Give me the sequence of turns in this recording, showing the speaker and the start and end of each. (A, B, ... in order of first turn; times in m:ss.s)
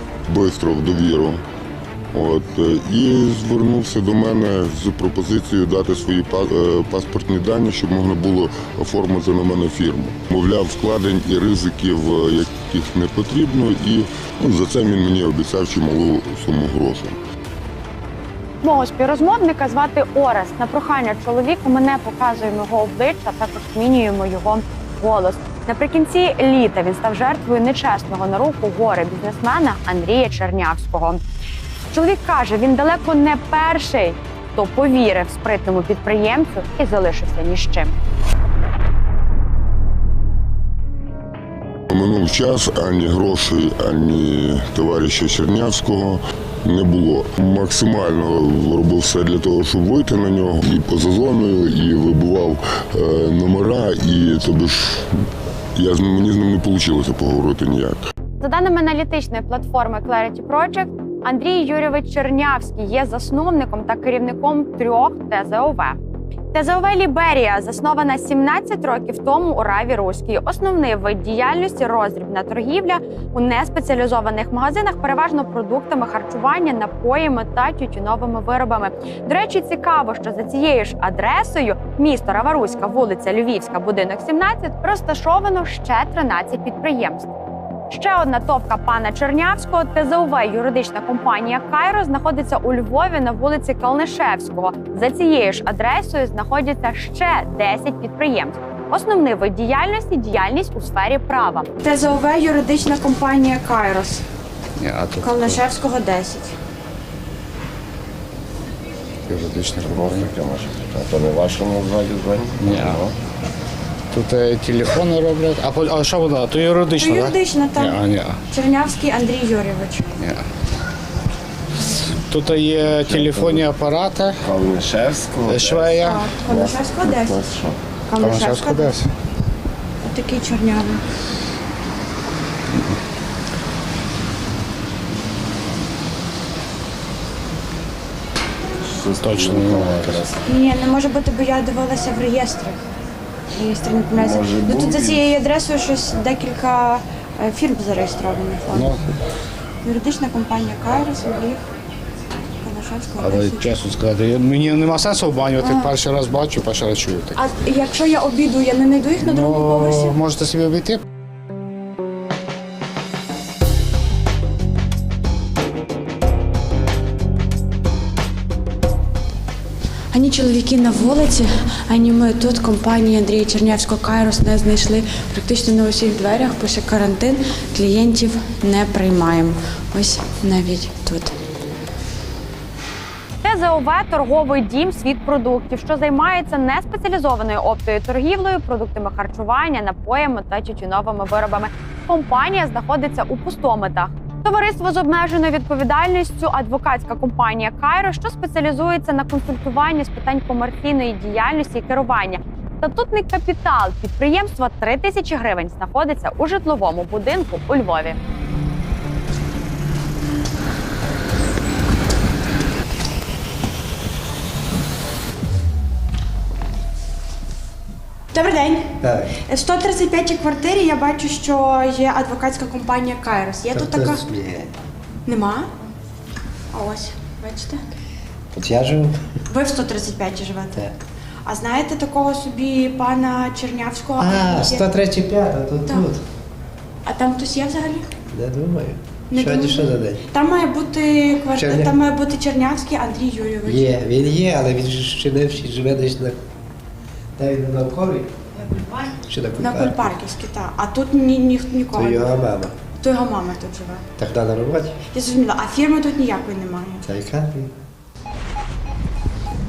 0:00.3-0:01.4 A
0:02.1-0:17.2 A
0:18.6-0:31.2 B
0:31.9-0:37.9 B
0:41.9-0:55.1 A
0:55.8-0:58.0 A
0:58.4-1:06.0 B
1:06.5-1:27.3 B
1:27.9-1:41.8 B
1:41.9-1:44.2 C
1:44.8-1:45.6 D
1:45.2-1:46.6 C
1:49.3-1:50.3 D
1:49.9-1:53.1 E
1:52.6-1:53.0 D
1:54.1-1:58.4 D
1:57.1-1:58.0 C
1:58.5-2:00.2 C
2:00.2-2:00.4 D
2:02.0-2:04.5 D
2:03.0-2:03.6 E
2:04.4-2:07.8 E
2:05.4-2:06.3 D
2:06.0-2:07.3 C
2:08.1-2:08.9 C
2:08.2-2:09.1 D
2:10.0-2:11.0 C
2:18.8-2:20.4 E
2:19.2-2:20.3 D
2:20.4-2:22.8 C
2:23.5-2:28.9 C
2:24.2-2:25.3 E
2:28.7-2:29.1 D
2:29.8-2:31.6 C
2:32.6-2:33.7 C
2:33.2-2:37.4 D
2:37.4-2:40.2 C
2:39.2-2:41.0 D
2:50.1-3:01.4 C
3:03.4-3:28.2 B
3:38.3-3:44.2 C
3:39.0-3:39.4 F
3:43.7-3:44.7 F
3:45.2-3:45.7 C
3:46.7-3:47.8 C
3:48.5-3:49.4 F
3:49.5-3:50.9 C
3:51.4-3:54.8 C
3:54.2-3:56.2 F
3:57.0-3:58.1 C
3:58.3-4:00.2 F
3:59.3-4:03.8 C
4:01.5-4:02.0 F
4:03.6-4:06.4 F
4:07.4-4:08.3 F
4:09.2-4:10.1 F
4:09.6-4:12.3 C
4:11.9-4:12.8 F
4:13.0-4:14.0 C
4:14.2-4:15.0 F
4:15.1-4:17.0 C
4:17.0-4:17.7 F